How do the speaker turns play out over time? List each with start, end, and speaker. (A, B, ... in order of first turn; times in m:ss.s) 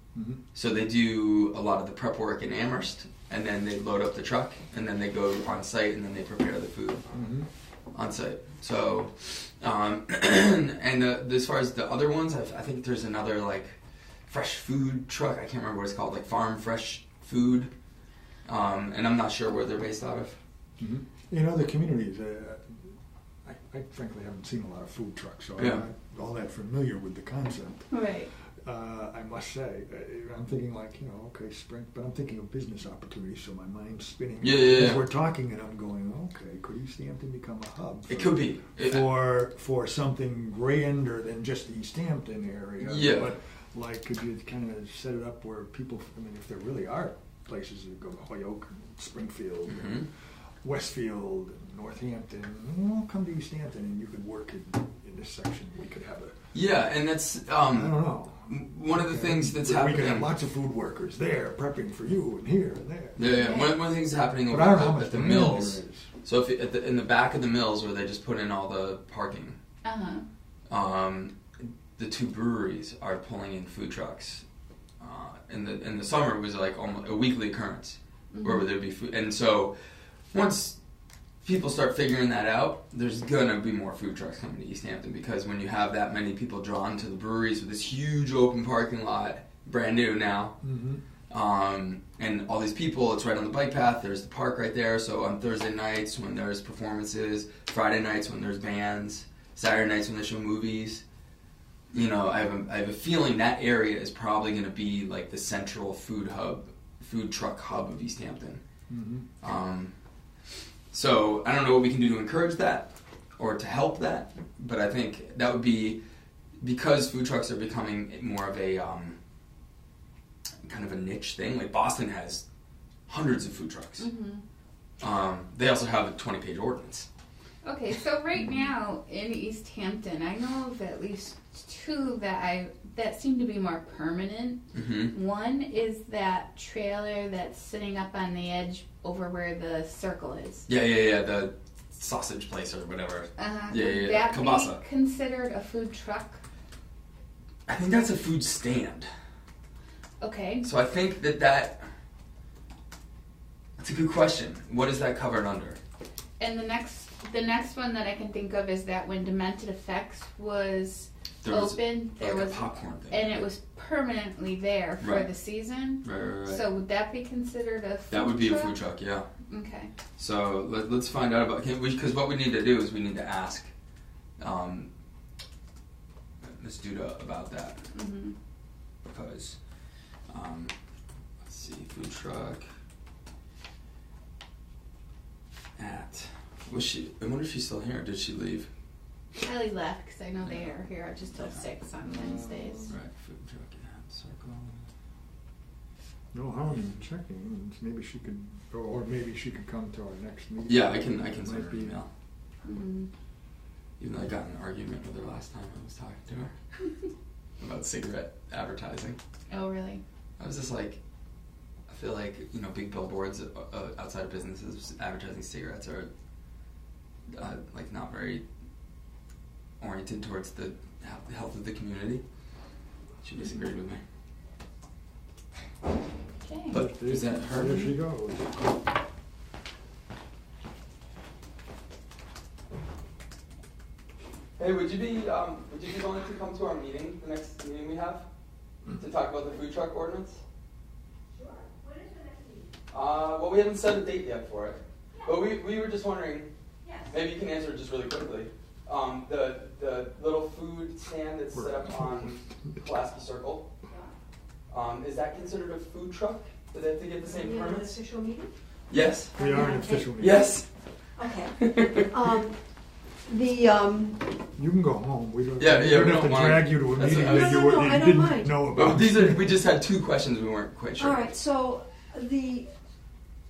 0:00.2-0:00.4 A
0:00.5-0:07.0 B
0:07.1-0:07.5 A
0:07.9-0:13.8 B
0:14.3-0:17.7 B
0:18.5-0:20.4 B
0:20.8-0:27.9 A
0:25.6-0:25.8 B
0:27.9-0:28.3 C
0:28.6-0:50.1 A
0:34.4-0:35.0 B
0:38.1-0:39.1 B
0:42.8-0:43.3 B
0:49.7-0:50.1 B
0:50.6-0:56.4 A
0:56.5-1:00.3 B
0:57.7-1:03.2 A
1:03.2-1:09.6 B
1:03.3-1:03.8 C
1:04.5-1:06.1 A
1:09.8-1:10.3 C
1:10.7-1:11.4 B
1:12.0-1:14.4 B
1:15.0-1:19.7 B
1:18.3-1:18.7 C
1:20.3-1:20.8 B
1:21.4-1:30.6 B
1:30.6-1:31.0 A
1:31.3-1:41.0 B
1:41.9-1:48.6 B
1:48.9-1:49.3 A
1:49.4-1:49.9 B
1:50.9-1:56.0 B
1:56.6-1:59.2 B
2:00.6-2:02.4 B
2:03.1-2:04.1 B
2:04.0-2:04.4 C
2:05.0-2:07.1 B
2:07.6-2:20.7 C
2:14.7-2:15.2 B
2:20.7-2:24.8 B
2:23.4-2:26.4 C
2:27.7-2:29.1 B
2:30.2-2:30.6 C
2:30.6-2:31.8 B
2:33.8-2:35.8 B
2:36.4-2:48.8 C
2:41.4-2:43.4 B
2:45.0-2:45.3 B
2:46.0-2:46.6 B
2:48.1-2:49.3 B
2:49.5-2:49.9 C
2:50.2-2:53.7 B
2:54.4-2:54.9 B
2:56.6-2:57.8 B
2:57.9-2:58.4 C
2:59.1-2:59.6 B
3:00.3-3:00.7 B
3:01.4-3:02.7 B
3:05.8-3:08.7 B
3:09.4-3:12.9 C
3:10.4-3:10.7 B
3:11.4-3:11.6 B
3:12.1-3:12.9 A
3:12.9-3:14.8 B
3:16.3-3:22.0 A
3:20.7-3:22.1 B
3:22.6-3:23.1 C
3:24.0-3:26.5 B
3:27.6-3:29.2 B
3:29.5-3:30.0 C
3:30.4-3:31.0 B
3:31.9-3:36.1 B
3:37.3-3:38.4 B
3:39.8-3:42.2 B
3:43.2-3:44.0 B
3:46.4-3:46.8 C
3:46.7-3:47.9 B
3:46.7-3:48.7 A
3:54.6-3:58.3 B
3:59.0-4:00.4 B
4:01.3-4:02.7 D
4:02.9-4:06.5 B
4:06.8-4:07.2 D
4:07.1-4:13.7 B
4:11.5-4:12.8 A
4:14.7-4:17.9 B
4:17.2-4:18.5 D
4:18.9-4:19.3 B
4:19.4-4:20.5 D
4:19.4-4:20.5 A
4:20.2-4:20.7 B
4:21.2-4:22.6 D
4:21.6-4:22.1 B
4:23.3-4:24.3 D
4:24.6-4:29.5 A
4:25.6-4:27.7 B
4:27.2-4:28.6 D
4:28.7-4:31.3 B
4:31.0-4:32.7 D